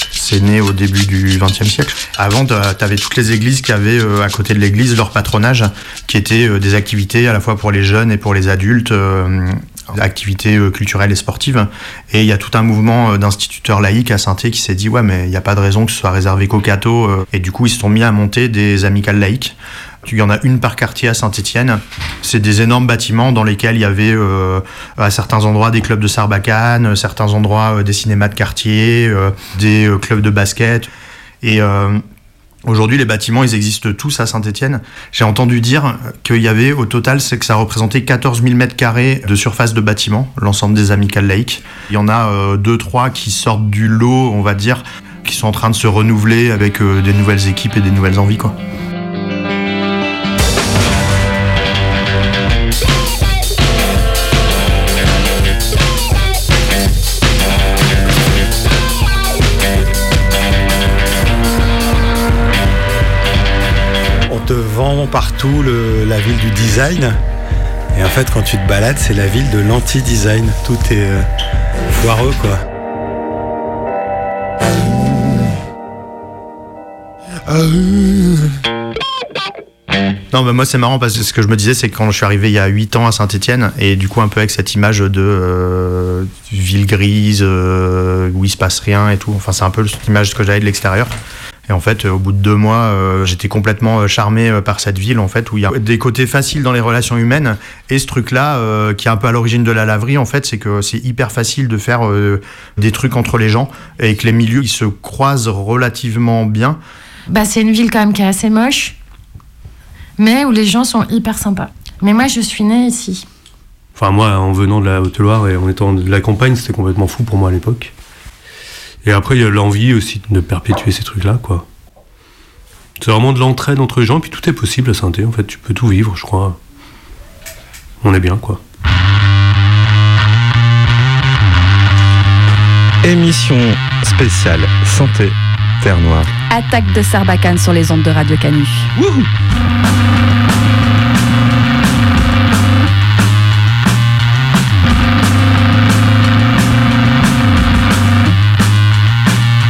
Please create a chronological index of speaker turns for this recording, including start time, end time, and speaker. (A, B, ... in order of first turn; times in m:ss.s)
0:00.1-0:30.9 A
0:31.4-0:32.0 A
0:32.6-0:48.5 A
1:04.3-1:07.2 B
1:07.9-1:11.2 B
1:11.9-1:12.6 B
1:17.5-1:18.4 B
1:20.3-1:31.1 A
1:31.7-1:46.8 A
1:47.3-1:49.0 C
1:50.2-1:53.2 C
1:53.9-1:57.9 D
1:59.0-2:01.6 D
2:03.0-2:06.6 D
2:08.0-2:08.6 D
2:13.0-2:16.3 E
2:16.5-2:18.9 F
2:19.0-2:19.2 E